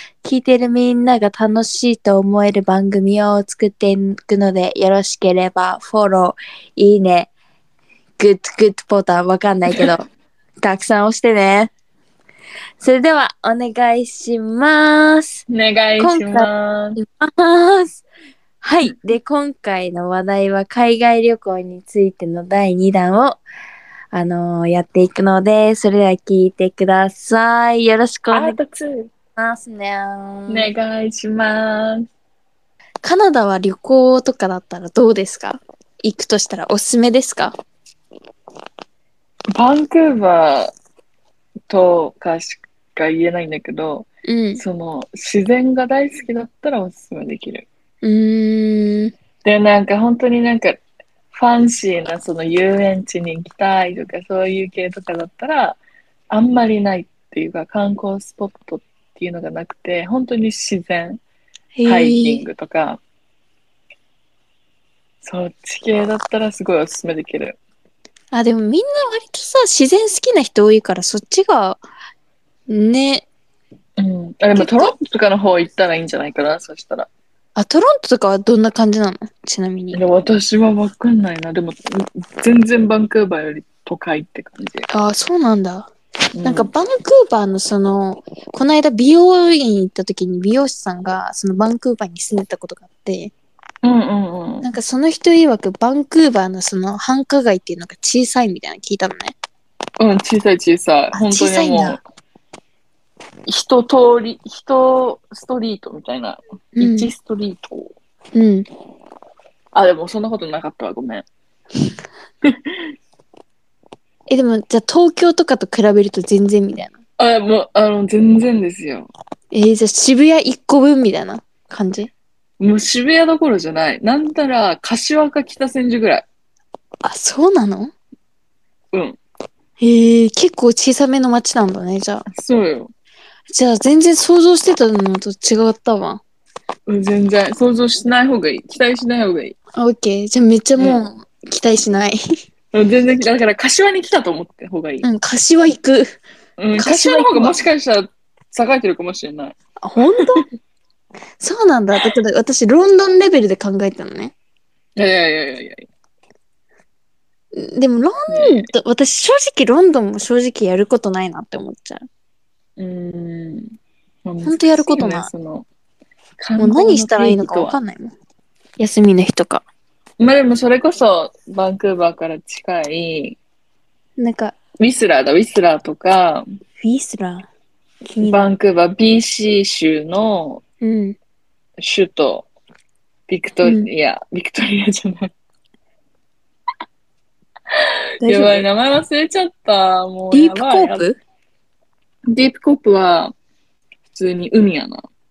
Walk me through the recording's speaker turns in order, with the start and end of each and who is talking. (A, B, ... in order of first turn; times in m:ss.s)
0:00.2-0:07.3 A
0:08.2-0:10.0 A
0:10.6-0:11.7 A
0:12.8-0:15.4 A
0:15.5-0:17.0 B
0:16.0-0:18.0 A
0:18.6-0:23.4 A
0:24.1-0:28.6 A
0:28.3-0:29.1 B
0:29.4-0:30.7 A
0:30.5-0:32.1 B
0:33.0-0:37.5 A
0:39.6-0:40.7 B
0:41.7-0:47.7 B
0:44.2-0:44.6 A
0:48.0-0:49.1 A
0:49.4-0:50.8 B
0:51.3-1:01.2 B
1:01.8-1:02.5 A
1:01.8-1:03.0 B
1:05.2-1:07.6 B
1:08.3-1:11.8 A
1:12.7-1:13.3 A
1:14.0-1:17.1 B
1:14.5-1:15.0 A
1:17.6-1:20.0 A
1:19.9-1:24.9 B
1:24.9-1:25.9 A
1:26.4-1:26.7 B
1:26.4-1:33.3 A
1:33.8-1:34.6 B
1:34.6-1:39.4 A
1:40.0-1:42.0 B
1:41.1-1:42.0 A
1:43.5-1:47.9 B
1:46.8-1:47.1 A
1:48.4-1:48.7 A
1:49.7-1:51.3 B
1:54.3-1:57.0 A
1:57.2-1:59.1 B
1:59.5-2:02.1 A
2:02.6-2:06.2 B
2:07.0-2:07.9 A
2:08.9-2:09.2 B
2:09.8-2:12.3 A
2:12.3-2:12.9 B
2:13.5-2:16.2 A
2:16.9-2:19.6 B
2:19.8-2:22.2 A
2:20.8-2:21.0 B
2:22.7-2:25.0 B
2:25.0-2:26.2 A
2:26.6-2:29.6 B
2:26.8-2:27.6 A
2:29.8-2:30.5 A
2:31.4-2:34.3 A
2:35.0-2:35.9 B
2:37.6-2:42.1 A
2:38.3-2:38.7 B
2:42.8-2:45.7 B
2:44.4-2:45.3 A
2:46.4-2:47.8 B
2:46.6-2:48.1 A
2:48.8-2:49.6 A
2:50.2-2:53.4 B
2:54.2-2:54.6 A
2:54.8-2:56.4 B
2:56.8-2:57.5 A
2:58.0-2:58.5 A
2:58.2-3:00.6 B
3:00.8-3:01.2 A
3:01.8-3:02.5 B
3:03.3-3:05.3 B
3:03.6-3:03.9 A
3:08.2-3:08.7 A
3:08.2-3:11.1 B
3:10.3-3:11.2 A
3:12.3-3:13.3 B
3:14.1-3:15.0 B